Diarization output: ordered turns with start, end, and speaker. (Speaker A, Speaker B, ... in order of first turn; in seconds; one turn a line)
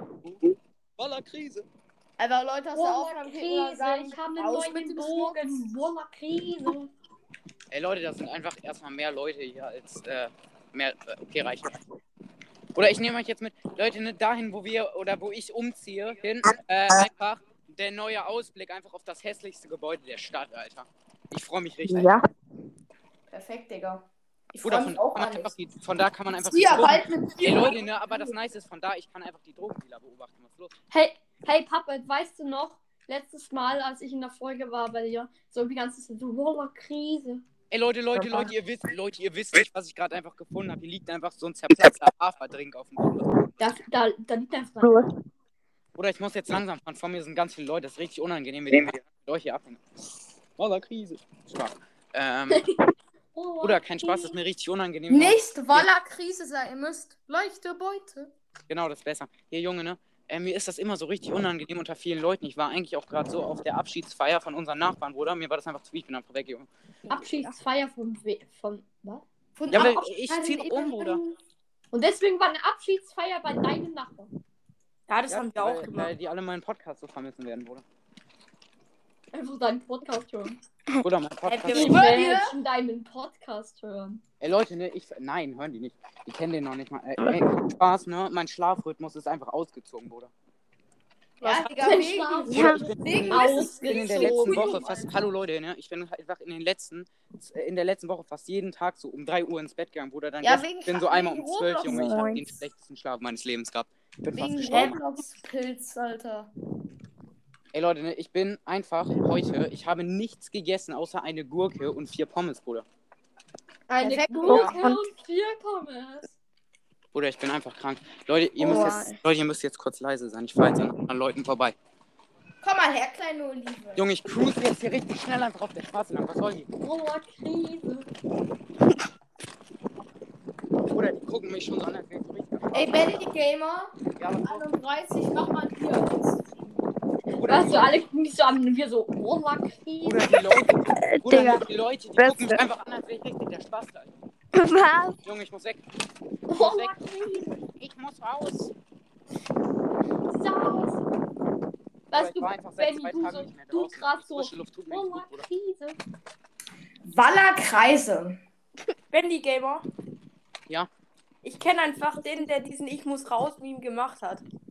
Speaker A: 1.0-1.7
Speaker B: 2.2-5.6
Speaker C: 2.7-6.9
Speaker A: 7.7-11.7
Speaker A: 12.8-22.1
Speaker D: 21.9-22.3
Speaker B: 23.3-25.5
Speaker A: 24.6-30.7
Speaker B: 26.4-28.3
Speaker C: 30.9-37.4
Speaker A: 37.7-43.6
Speaker D: 38.2-38.5
Speaker C: 43.6-45.0
Speaker D: 44.8-45.1
Speaker A: 46.0-49.8
Speaker A: 50.6-52.6
Speaker C: 53.4-54.4
Speaker A: 53.6-55.9
Speaker B: 55.1-58.3
Speaker A: 58.7-66.7
Speaker C: 67.1-69.2
Speaker B: 69.6-71.2
Speaker A: 69.7-71.2
Speaker C: 71.9-74.3
Speaker E: 75.1-76.1
Speaker A: 75.3-77.8
Speaker C: 79.3-80.6
Speaker A: 81.0-82.1
Speaker E: 81.5-82.2
Speaker B: 81.7-82.6
Speaker C: 81.7-84.2
Speaker A: 84.4-90.3
Speaker B: 91.4-95.1
Speaker C: 91.8-94.9
Speaker D: 92.5-92.9
Speaker A: 92.6-105.0
Speaker B: 100.4-102.0
Speaker D: 101.8-102.6
Speaker B: 104.3-106.5
Speaker A: 107.7-112.8
Speaker C: 113.9-116.3
Speaker B: 113.9-114.8
Speaker D: 114.5-115.0
Speaker A: 117.1-121.8
Speaker D: 118.6-119.2
Speaker B: 118.7-119.0
Speaker B: 122.6-124.0
Speaker A: 124.0-126.7
Speaker C: 126.8-128.1
Speaker A: 130.9-133.3
Speaker B: 132.7-136.6
Speaker A: 134.2-134.7
Speaker A: 137.4-137.9
Speaker C: 137.5-140.3
Speaker A: 140.0-144.1
Speaker D: 140.9-141.6
Speaker D: 142.2-142.6
Speaker D: 144.6-145.2
Speaker A: 145.2-145.8
Speaker C: 146.5-147.6
Speaker A: 146.5-146.9
Speaker A: 147.6-148.7
Speaker C: 150.3-151.0
Speaker C: 152.1-156.0
Speaker A: 152.1-155.4
Speaker B: 157.0-158.4
Speaker E: 159.1-159.9
Speaker E: 161.4-164.4